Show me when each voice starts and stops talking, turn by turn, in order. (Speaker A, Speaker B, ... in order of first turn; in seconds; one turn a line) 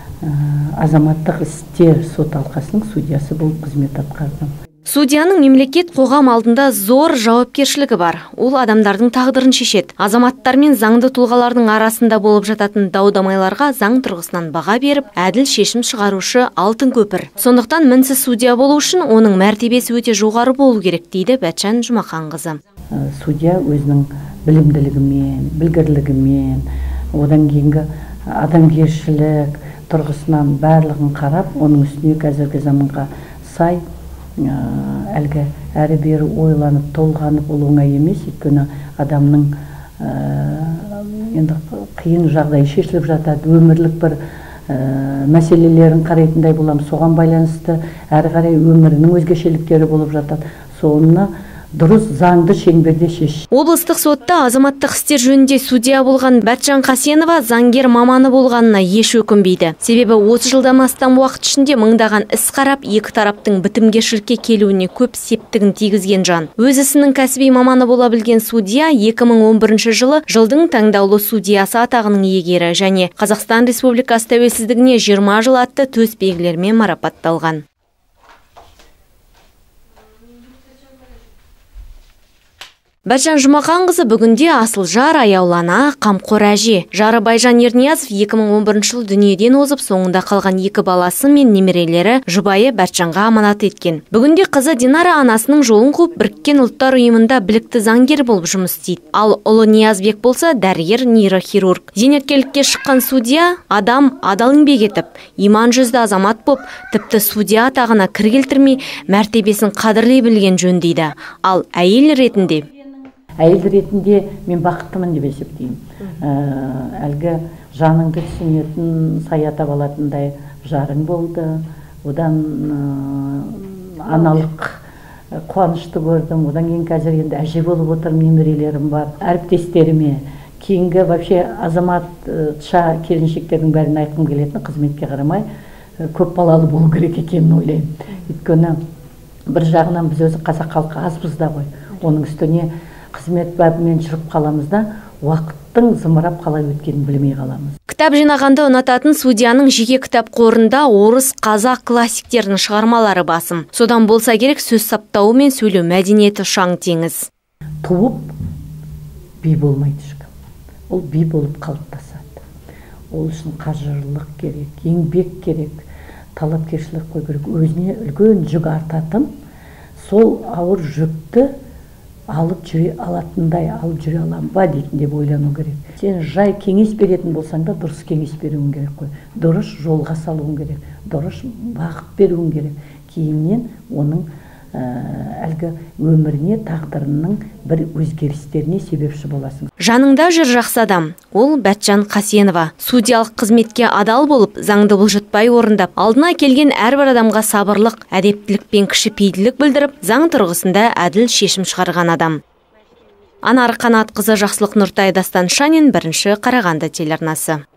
Speaker A: 0.2-4.5
Speaker B: 4.9-22.6
Speaker A: 22.9-26.7
Speaker A: 27.2-27.9
Speaker A: 28.4-33.8
Speaker A: 34.4-44.2
Speaker A: 44.7-53.4
Speaker B: 53.5-77.6
Speaker B: 83.1-112.7
Speaker A: 113.4-124.8
Speaker A: 125.5-135.4
Speaker A: 136.1-138.8
Speaker A: 139.5-147.8
Speaker B: 147.9-157.3
Speaker A: 157.8-158.3
Speaker A: 159.4-160.3
Speaker A: 160.9-162.4
Speaker A: 163.1-165.9
Speaker A: 166.4-169.3
Speaker A: 170.0-171.5
Speaker A: 172.3-189.7
Speaker B: 189.8-202.4
Speaker B: 203.4-207.6